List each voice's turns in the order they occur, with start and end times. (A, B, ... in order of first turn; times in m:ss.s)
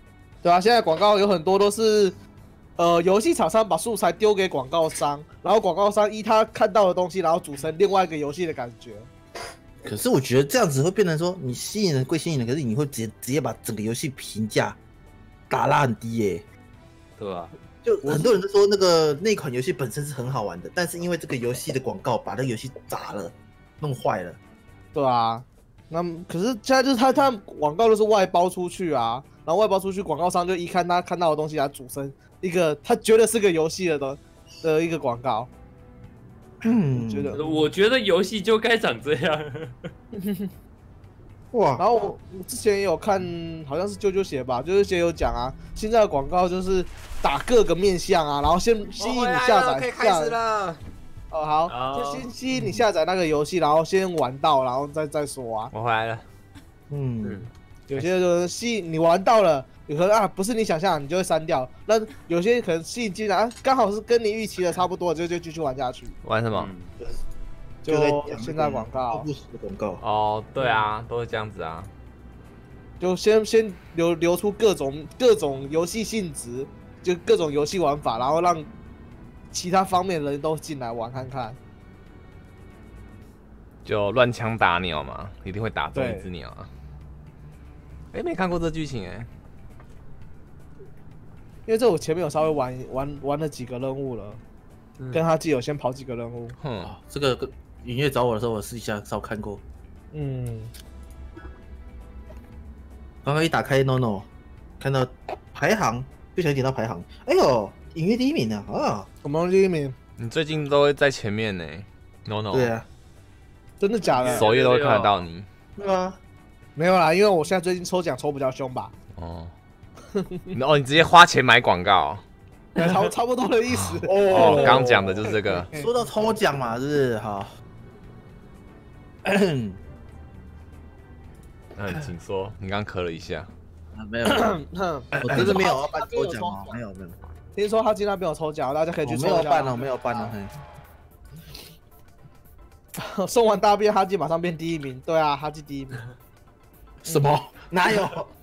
0:00.4-0:02.2 A
0:02.8-0:09.1 A
0:09.8-0:14.8 B
0:15.5-0:16.4 B
0:17.2-0:17.5 C
0:17.8-0:24.4 B
0:18.0-0:18.4 A
0:24.9-0:35.5 A
0:36.6-0:37.4 B
0:36.9-0:37.7 A
0:37.3-0:39.9 C
0:40.1-0:40.5 A
0:41.5-0:42.1 B
0:41.8-0:50.4 A
0:49.0-0:50.8 D
0:51.3-0:55.7 A
0:51.7-0:52.3 C
0:52.5-0:52.8 B
0:55.7-0:56.2 D
0:56.9-0:57.5 B
0:57.2-0:57.5 C
0:57.9-1:06.2 A
1:06.2-1:06.7 D
1:06.5-1:06.9 C
1:07.8-1:10.0 B
1:07.8-1:09.3 A
1:10.0-1:11.9 D
1:13.0-1:18.7 A
1:19.5-1:21.6 A
1:23.8-1:26.7 D
1:25.9-1:26.3 A
1:28.1-1:29.3 D
1:31.6-1:34.4 A
1:35.1-1:36.6 A
1:36.6-1:36.9 D
1:36.8-1:39.6 B
1:40.1-1:40.7 A
1:43.2-1:44.3 B
1:44.8-1:49.1 B
1:49.2-1:50.0 A
1:50.2-1:52.7 D
1:52.5-1:52.8 B
1:53.8-1:54.5 A
1:54.2-1:55.2 C
1:54.3-1:55.5 D
1:55.8-1:56.2 B
1:56.8-1:58.9 A
1:59.1-1:59.5 D
2:00.1-2:00.5 A
2:00.5-2:02.2 D
2:02.7-2:05.9 A
2:04.0-2:07.5 B
2:04.2-2:05.7 D
2:09.2-2:09.8 B
2:11.8-2:13.5 D
2:13.9-2:14.6 B
2:14.2-2:16.8 A
2:15.1-2:17.2 B
2:17.6-2:20.3 A
2:19.0-2:20.5 B
2:23.0-2:26.0 A
2:27.0-2:28.3 B
2:27.1-2:27.3 A